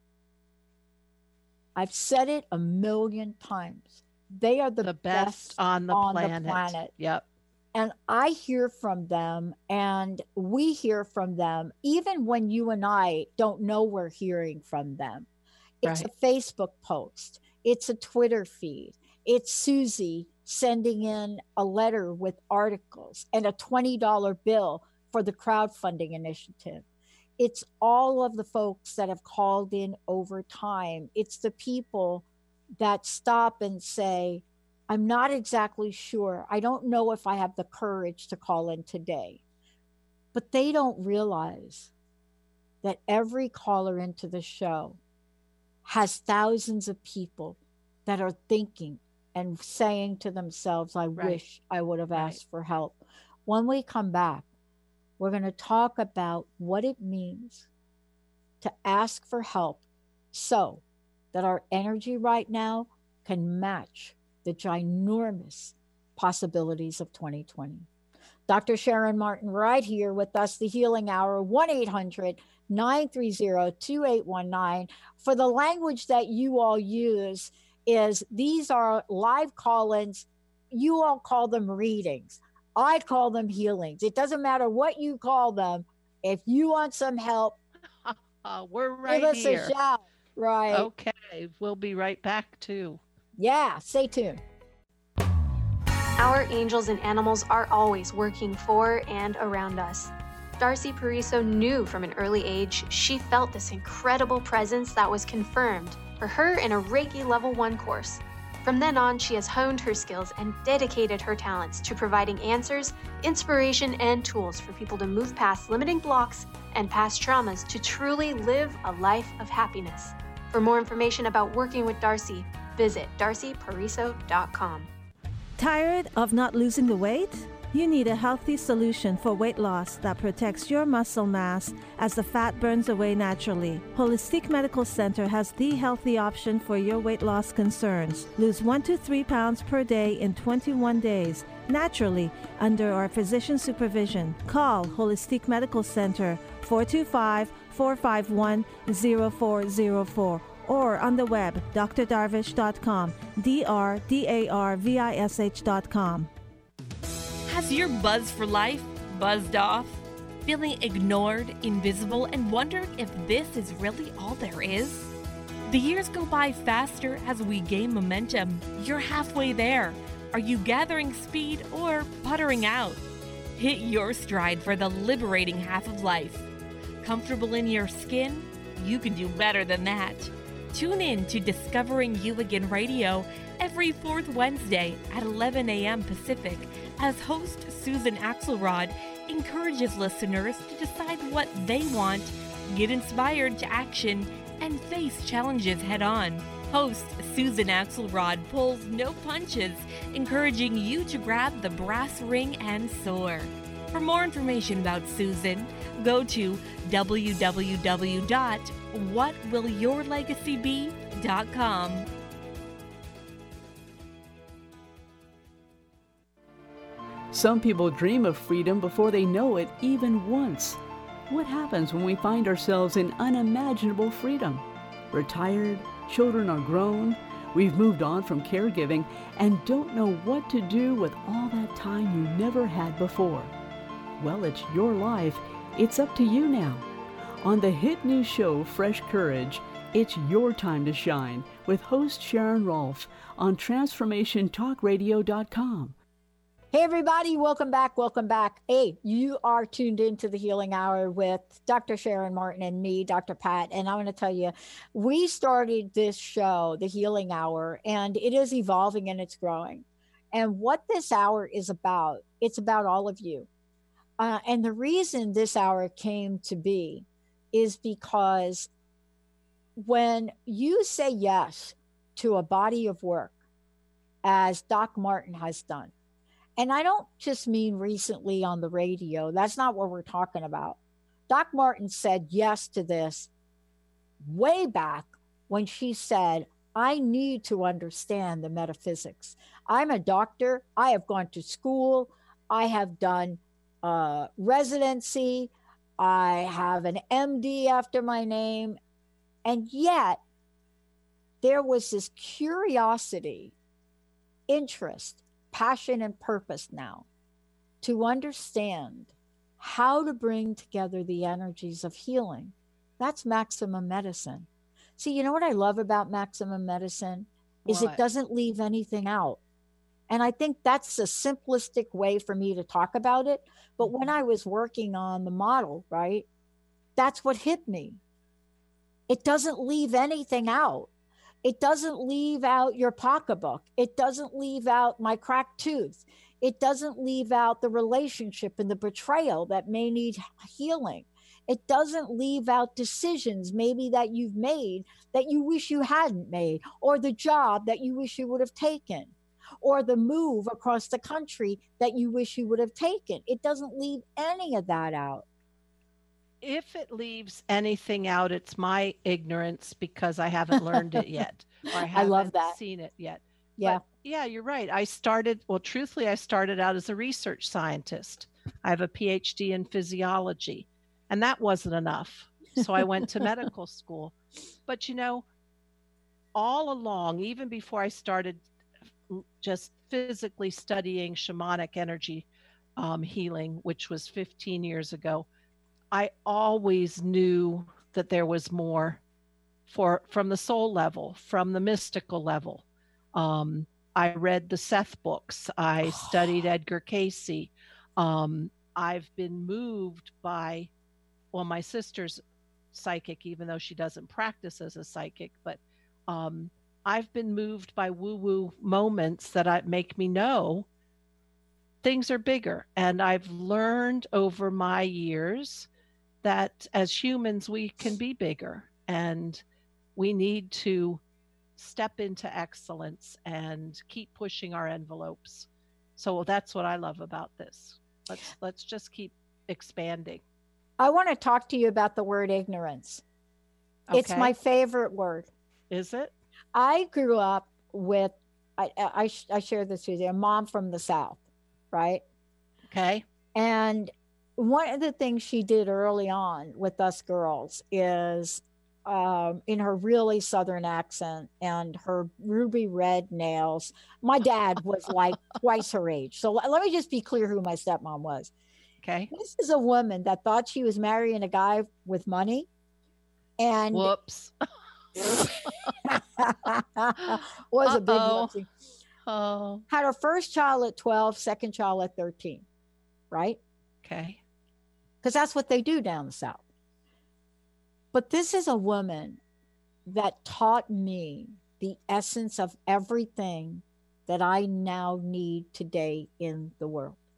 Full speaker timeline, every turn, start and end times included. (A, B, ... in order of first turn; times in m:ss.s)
0:01.8-0:06.9 A
0:04.8-0:07.3 B
0:07.7-0:15.3 A
0:15.8-0:26.8 A
0:27.4-0:32.3 A
0:32.8-0:39.4 A
0:40.3-0:41.9 A
0:42.8-0:45.0 A
0:45.8-0:54.4 A
0:52.1-0:52.4 B
0:55.2-0:57.7 A
0:58.6-0:59.8 A
1:00.3-1:07.9 A
1:08.5-1:27.6 A
1:28.0-1:29.7 B
1:29.1-1:30.9 A
1:30.7-1:33.0 B
1:33.4-1:34.4 A
1:36.2-2:04.9 C
2:05.6-2:36.3 D
2:37.5-2:45.0 E
2:45.7-2:53.0 E
2:53.6-2:56.5 E
2:57.0-3:32.1 E
3:37.3-3:53.6 F
3:54.2-3:56.9 F
3:57.4-4:06.0 F
4:06.7-4:23.5 A
4:24.2-4:28.7 A
4:29.8-4:33.3 A
4:34.2-4:35.9 A
4:36.6-4:43.3 A
4:44.2-4:58.8 A
4:59.4-5:00.2 A
5:01.4-5:03.5 A
5:04.5-5:07.1 A
5:07.8-5:19.4 A
5:17.6-5:18.0 B
5:20.1-5:26.3 A
5:23.8-5:24.1 B
5:27.0-5:28.0 A
5:29.1-5:30.9 A
5:31.4-5:55.2 A
5:56.4-6:14.2 B
6:01.9-6:02.6 A
6:14.7-6:15.2 B
6:16.4-6:18.4 B
6:19.1-6:25.3 B
6:25.9-6:29.0 B
6:29.7-6:32.6 B
6:33.2-6:40.7 B
6:41.3-6:42.2 B
6:42.7-6:50.7 B
6:51.8-6:55.7 B
6:56.2-6:59.4 B
7:00.0-7:01.0 B
7:01.6-7:10.2 B
7:10.8-7:13.0 A
7:13.9-7:14.3 B
7:13.9-7:15.3 A
7:15.7-7:16.1 B
7:16.5-7:21.2 A
7:21.7-7:22.0 A
7:22.7-7:23.0 B
7:23.4-7:38.3 A
7:38.8-7:39.1 B
7:39.1-7:42.5 A
7:43.4-7:43.9 A
7:43.7-7:44.3 B
7:45.0-7:45.7 B
7:45.9-7:48.5 A
7:47.0-7:48.3 B
7:49.1-7:49.6 B
7:49.7-7:52.5 A
7:53.1-7:53.4 A
7:53.8-7:54.2 B
7:55.0-7:56.4 A
7:57.9-7:59.2 A
7:59.9-8:07.0 A